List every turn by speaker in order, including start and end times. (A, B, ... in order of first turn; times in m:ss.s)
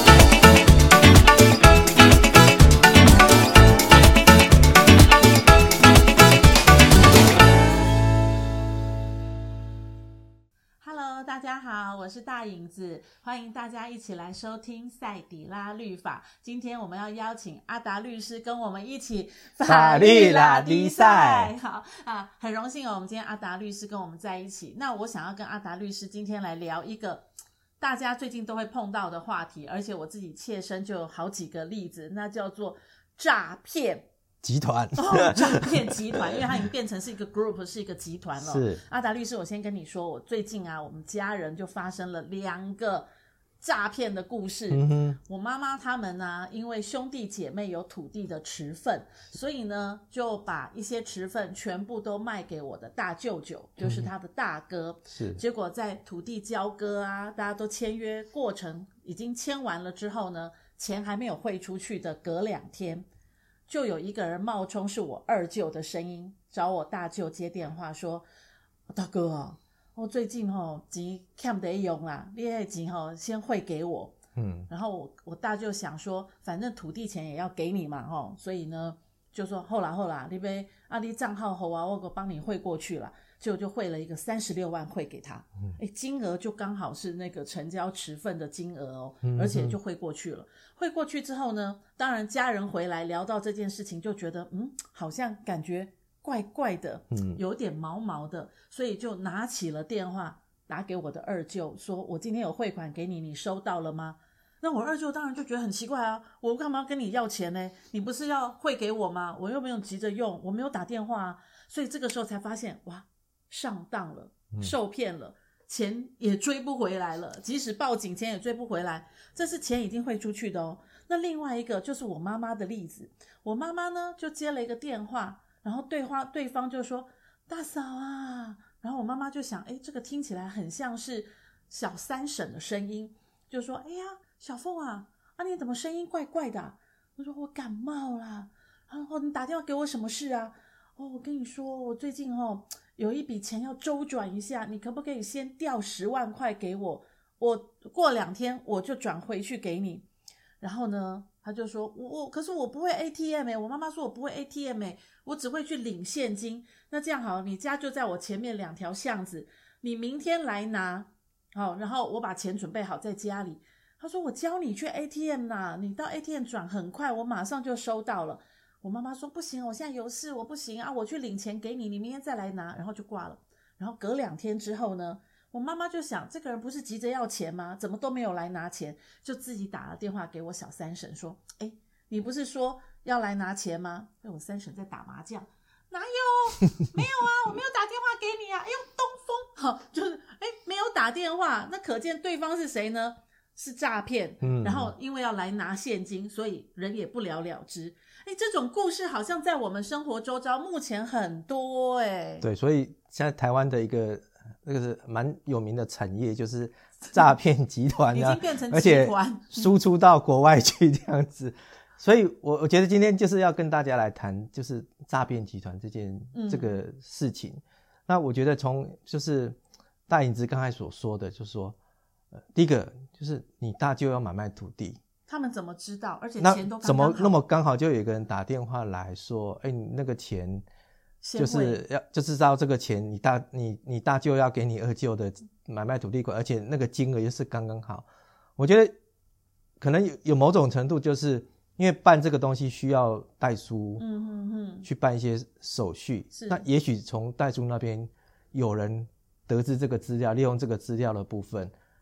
0:10.8-0:27.3 A
0:19.7-0:21.5 B
0:27.8-0:34.1 A
0:34.4-0:36.5 B
0:35.0-0:43.1 A
0:38.4-0:38.8 B
0:43.6-1:03.1 A
0:44.7-0:45.2 B
0:53.8-0:54.1 B
0:55.1-0:55.4 B
1:03.7-1:08.2 A
1:08.9-1:14.2 A
1:14.4-1:14.7 B
1:14.7-2:30.0 A
1:29.2-1:29.8 B
1:37.1-1:37.4 B
2:30.6-3:22.5 A
3:14.4-3:14.9 B
3:22.4-3:39.6 B
3:28.1-3:29.7 A
3:36.3-3:36.7 A
3:40.1-3:41.8 B
3:42.5-3:45.0 B
3:45.3-3:47.4 A
3:46.4-3:50.6 B
3:51.2-3:51.8 A
3:51.4-3:58.0 B
3:58.6-3:58.9 B
3:59.8-4:04.0 B
4:04.0-4:04.9 A
4:04.8-4:11.7 B
4:06.3-4:06.6 A